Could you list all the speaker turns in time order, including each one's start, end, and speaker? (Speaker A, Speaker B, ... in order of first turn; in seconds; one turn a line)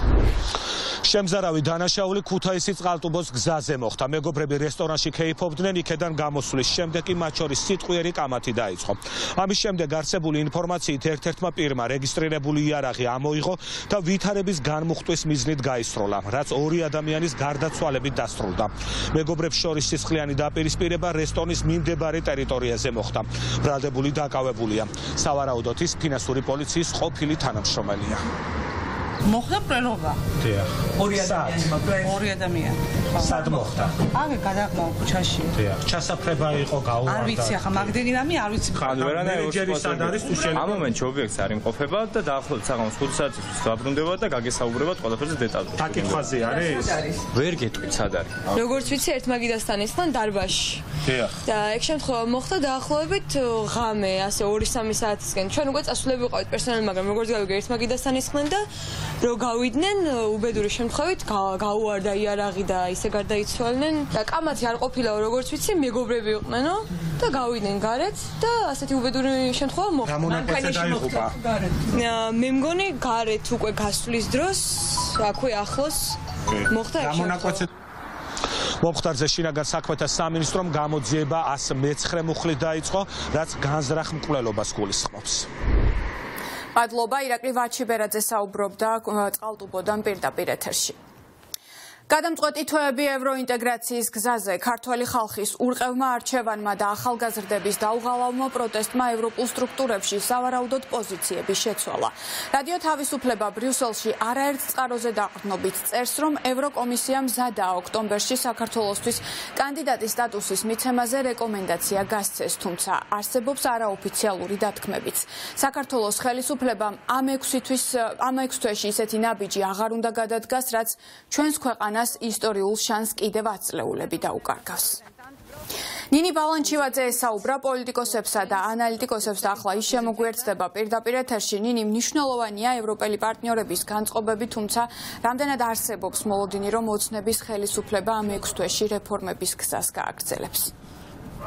Speaker A: 1.0-28.2
Speaker B: 29.2-30.2
Speaker A: 30.4-32.2
Speaker B: 31.1-35.5
Speaker A: 33.2-34.0
Speaker A: 35.5-37.9
Speaker B: 37.0-38.9
Speaker A: 38.8-40.9
Speaker C: 38.8-46.3
Speaker A: 45.8-47.0
Speaker C: 47.3-48.6
Speaker D: 48.6-50.8
Speaker D: 51.5-58.6
Speaker D: 59.2-71.2
Speaker A: 70.0-71.3
Speaker D: 71.9-76.2
Speaker A: 76.7-77.7
Speaker D: 76.8-77.6
Speaker A: 78.8-85.5
Speaker E: 86.8-91.0
Speaker E: 92.1-125.0
Speaker E: 126.1-140.7